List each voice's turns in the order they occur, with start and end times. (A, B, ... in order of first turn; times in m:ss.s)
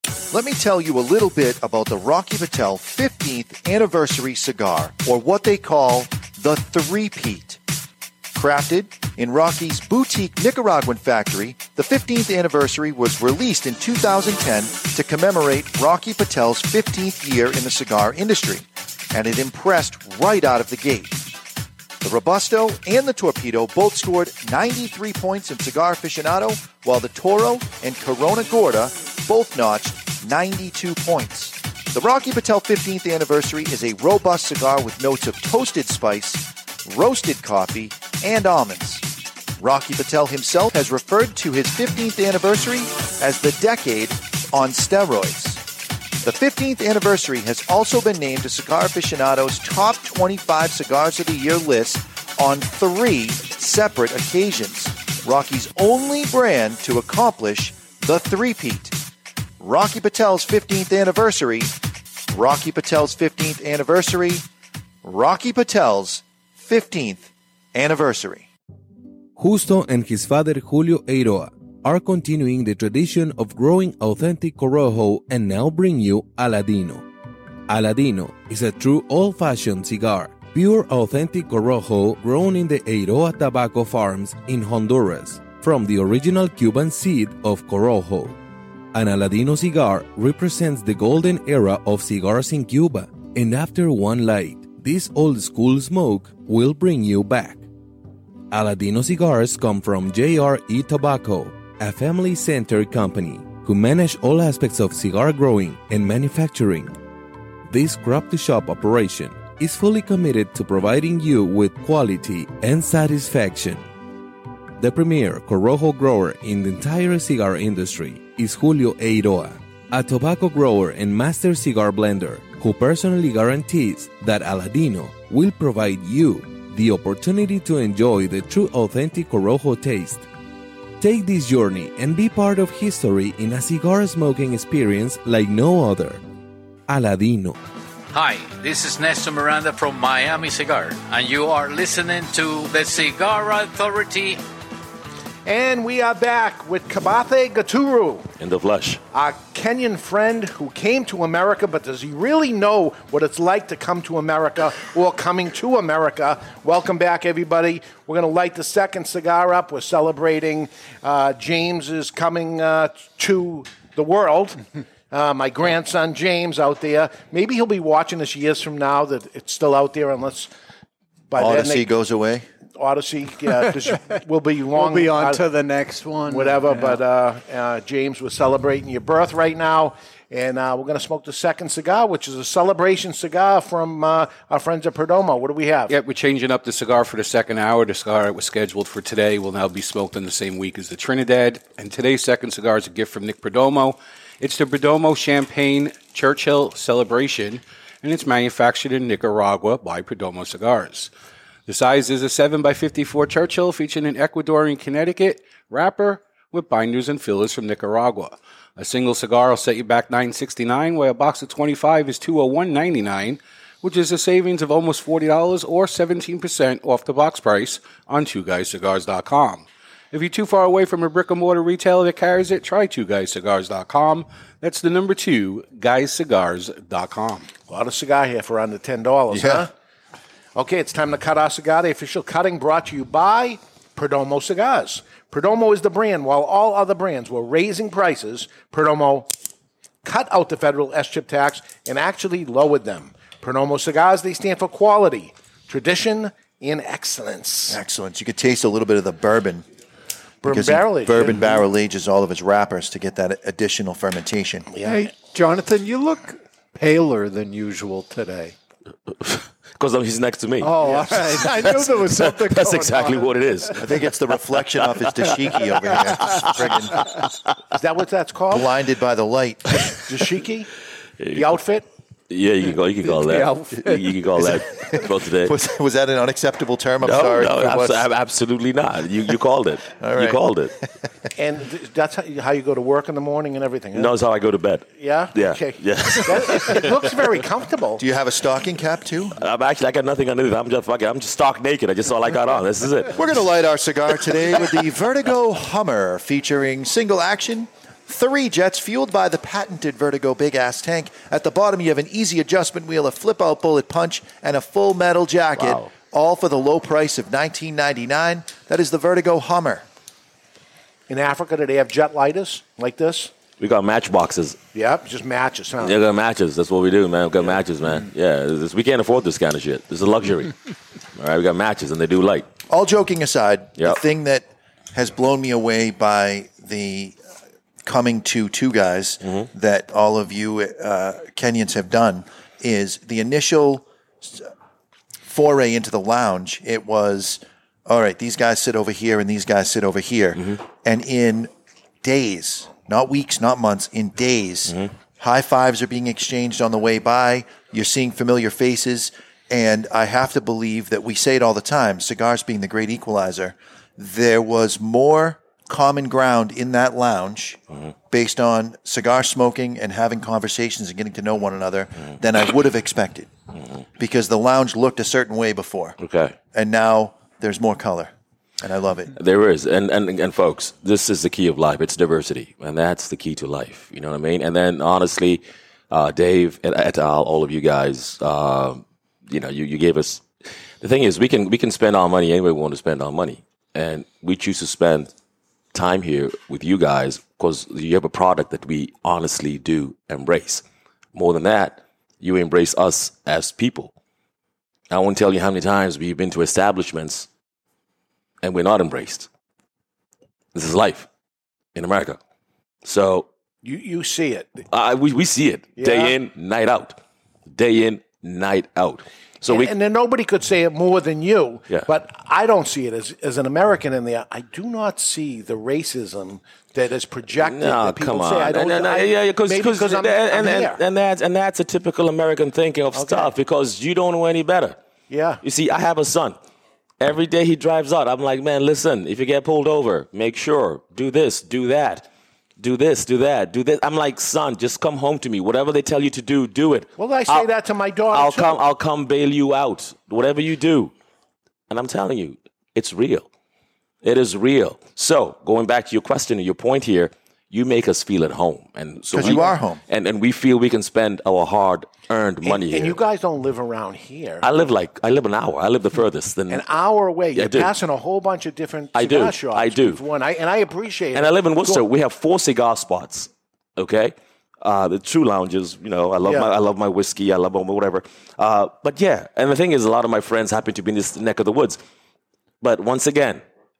0:00.3-0:07.6 A
0:08.3-0:21.3 A
0:22.0-0:39.0 A
0:39.6-0:45.6 A
0:46.2-0:59.0 A
0:59.6-1:01.7 A
1:02.3-1:04.4 A
1:05.0-1:08.5 A
1:09.4-1:17.0 B
1:17.7-1:28.4 B
1:28.9-1:37.6 B
1:38.5-1:46.9 B
1:47.7-1:53.8 B
1:54.8-2:10.2 B
2:11.0-2:16.2 B
2:16.9-2:17.6 B
2:18.1-2:24.4 C
2:25.4-2:28.3 D
2:28.4-2:29.0 E
2:29.1-2:50.5 D
2:51.3-2:51.9 D
2:51.3-2:52.4 A
2:52.8-2:55.4 D
2:53.5-2:54.0 F
2:54.7-2:57.0 F
2:56.3-3:05.9 D
3:05.9-3:21.1 G
3:21.7-3:47.5 G
3:47.7-3:49.7 D
3:49.3-3:49.6 A
3:50.6-3:59.3 D
4:00.0-4:07.8 D
4:07.7-4:09.6 A
4:10.4-4:11.6 D
4:10.4-4:14.7 A
4:14.7-4:15.1 D
4:14.8-4:18.5 F
4:19.1-4:25.4 E
4:20.6-4:23.7 F
4:23.8-4:27.0 A
4:26.2-4:27.3 E
4:27.7-4:28.7 D
4:28.5-4:29.8 A
4:30.0-4:30.7 D
4:31.2-4:31.5 E
4:31.3-4:31.8 D
4:32.3-4:35.5 E
4:33.0-4:34.2 F
4:34.5-4:38.1 A
4:37.0-4:40.7 E
4:40.0-4:40.4 A
4:41.4-4:44.1 D
4:43.9-4:46.9 E
4:44.9-4:48.0 D
4:48.0-4:49.4 A
4:49.4-4:53.2 E
4:53.1-5:09.8 A
5:05.6-5:05.9 E
5:11.1-5:13.3 D
5:13.6-5:14.6 E
5:14.7-5:16.0 D
5:15.8-5:20.5 E
5:21.2-5:22.5 E
5:22.7-5:27.2 A
5:23.8-5:24.0 E
5:27.8-5:34.5 A
5:35.2-5:41.5 A
5:42.0-6:03.3 A
6:04.0-6:06.0 A
6:06.0-6:06.4 E
6:06.5-6:09.1 A
6:09.2-6:20.2 E
6:20.8-6:25.1 E
6:25.7-6:33.9 E
6:34.9-6:37.3 E
6:38.4-6:39.3 E
6:40.5-6:41.1 E
6:41.7-6:42.2 E
6:42.8-6:43.3 E
6:43.6-6:44.6 D
6:44.7-6:49.7 E
6:45.8-6:46.2 D
6:49.4-7:00.8 D
6:57.4-7:04.8 E
7:02.9-7:03.3 D
7:05.1-7:05.4 D
7:05.4-7:06.4 E
7:07.0-7:12.1 E
7:12.6-7:17.5 E
7:17.0-7:18.6 D
7:18.1-7:20.9 E
7:21.7-7:23.3 E
7:24.0-7:33.0 E
7:29.1-7:29.8 A
7:32.4-7:34.5 D
7:34.4-7:36.6 E
7:36.5-7:41.8 D
7:37.3-7:37.7 E
7:38.9-7:40.0 E
7:41.1-7:51.8 E
7:46.2-7:46.5 D
7:52.6-7:53.4 E